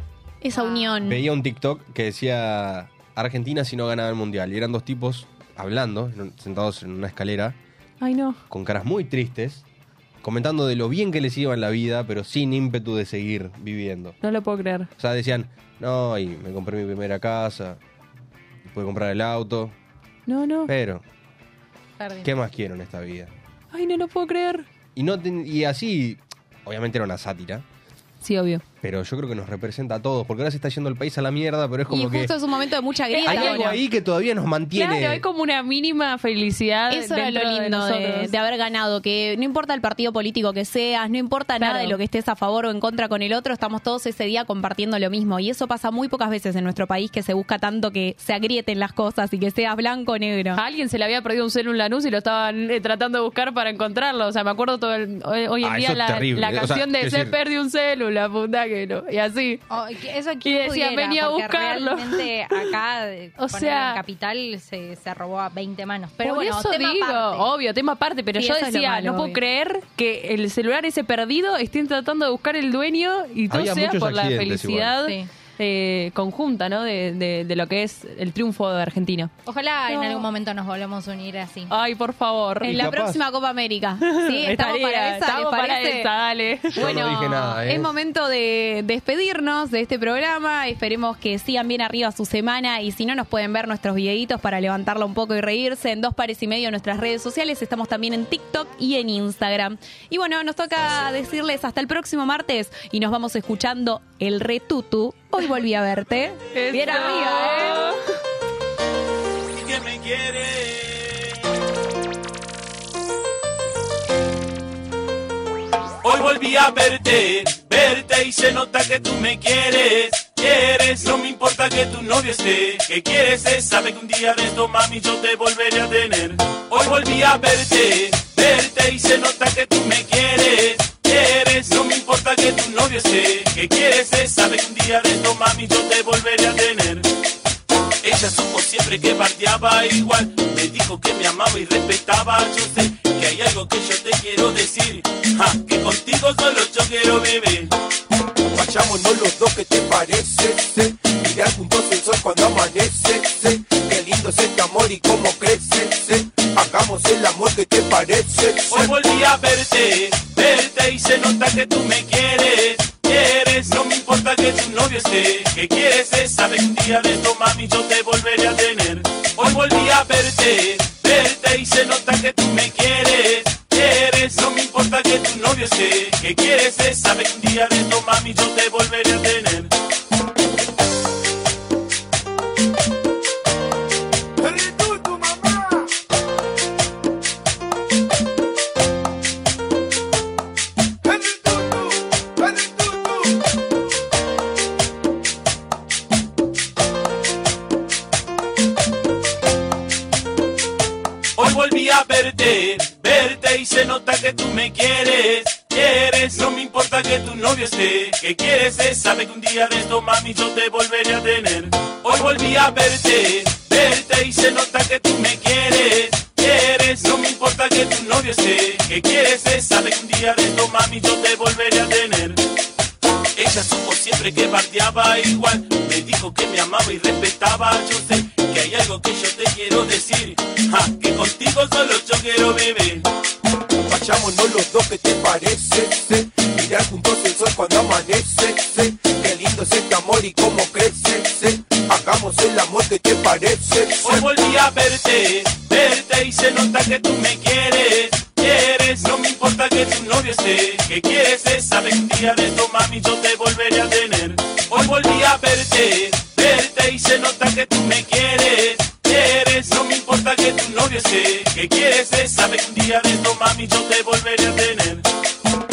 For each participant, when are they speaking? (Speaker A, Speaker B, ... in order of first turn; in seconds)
Speaker A: 0.4-1.2, 31.9-33.8, 36.9-50.6, 68.3-69.4, 82.6-86.1, 86.7-108.0
Speaker B: 0.5-1.0, 22.0-22.3, 59.7-67.5, 79.5-81.7
Speaker C: 1.0-7.6, 8.5-9.6, 10.2-14.2, 15.0-17.8, 18.7-19.7, 20.7-21.0, 22.2-23.3, 24.9-27.6, 28.8-32.3, 33.2-35.2, 55.6-57.4, 73.5-74.9, 82.6-83.2, 86.7-87.9
Speaker D: 8.0-8.4, 14.2-14.9, 20.3-20.7, 23.7-24.7, 28.2-28.6, 33.1-33.8, 34.7-38.3, 41.6-42.0, 50.5-59.6, 60.4-62.6, 63.4-64.0, 66.2-79.3, 81.7-82.9, 84.0-87.3, 106.5-108.0
Speaker E: 109.5-111.3, 116.0-137.1, 138.0-147.7, 158.7-179.7, 201.3-222.4, 223.3-233.1, 244.0-265.0
Speaker F: 148.5-159.0, 184.6-185.3, 191.3-191.7, 233.9-244.3